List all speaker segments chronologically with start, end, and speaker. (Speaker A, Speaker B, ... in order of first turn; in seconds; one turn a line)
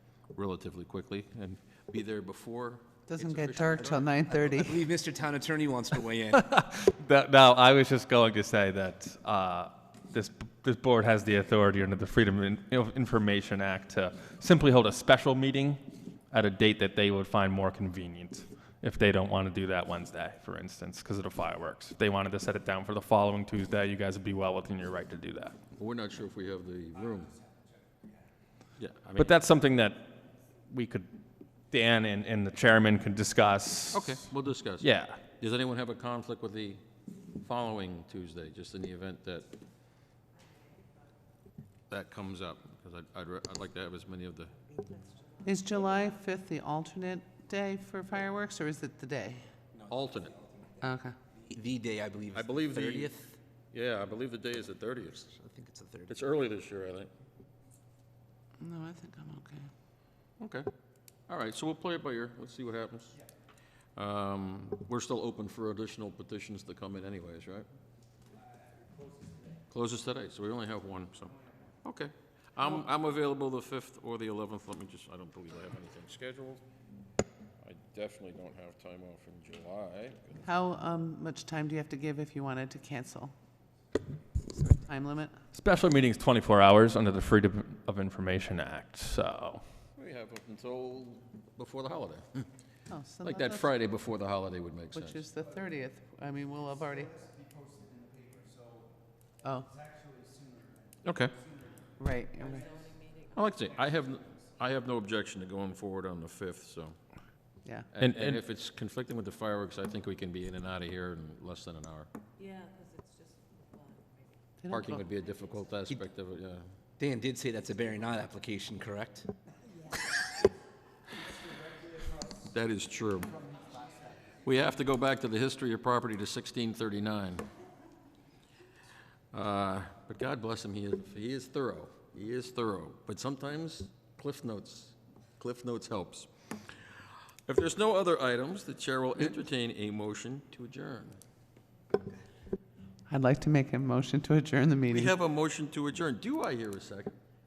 Speaker A: 0.3-4.1
Speaker B: 3.1-4.8
Speaker C: 4.3-6.5
Speaker D: 6.3-15.8
Speaker D: 16.3-25.6
Speaker A: 25.8-27.4
Speaker A: 28.8-29.3
Speaker D: 29.2-31.1
Speaker D: 31.7-34.3
Speaker A: 33.9-36.8
Speaker D: 34.8-35.2
Speaker A: 37.4-39.5
Speaker A: 41.9-44.5
Speaker B: 45.4-49.4
Speaker A: 49.9-50.4
Speaker B: 50.8-51.2
Speaker C: 51.5-53.4
Speaker A: 52.3-53.2
Speaker A: 53.7-55.3
Speaker C: 55.3-56.1
Speaker A: 56.1-57.1
Speaker B: 58.6-59.7
Speaker A: 60.4-60.7
Speaker A: 61.3-63.2
Speaker A: 64.0-67.7
Speaker A: 69.7-76.6
Speaker A: 77.6-80.5
Speaker B: 80.4-83.3
Speaker B: 84.6-85.4
Speaker D: 85.5-89.6
Speaker A: 90.0-92.5
Speaker B: 92.9-93.7
Speaker A: 93.2-95.2
Speaker B: 94.9-97.3
Speaker B: 99.4-99.7
Speaker A: 101.0-101.5
Speaker B: 102.0-102.7
Speaker E: 102.7-103.4
Speaker A: 103.3-107.0
Speaker A: 107.9-112.1
Speaker D: 108.0-108.4
Speaker E: 112.4-114.1
Speaker B: 114.6-115.0
Speaker A: 114.7-116.7
Speaker C: 117.0-119.3
Speaker A: 122.5-123.5
Speaker A: 124.5-127.5
Speaker A: 129.3-136.7
Speaker A: 137.5-141.2
Speaker B: 143.1-145.1
Speaker A: 144.9-147.1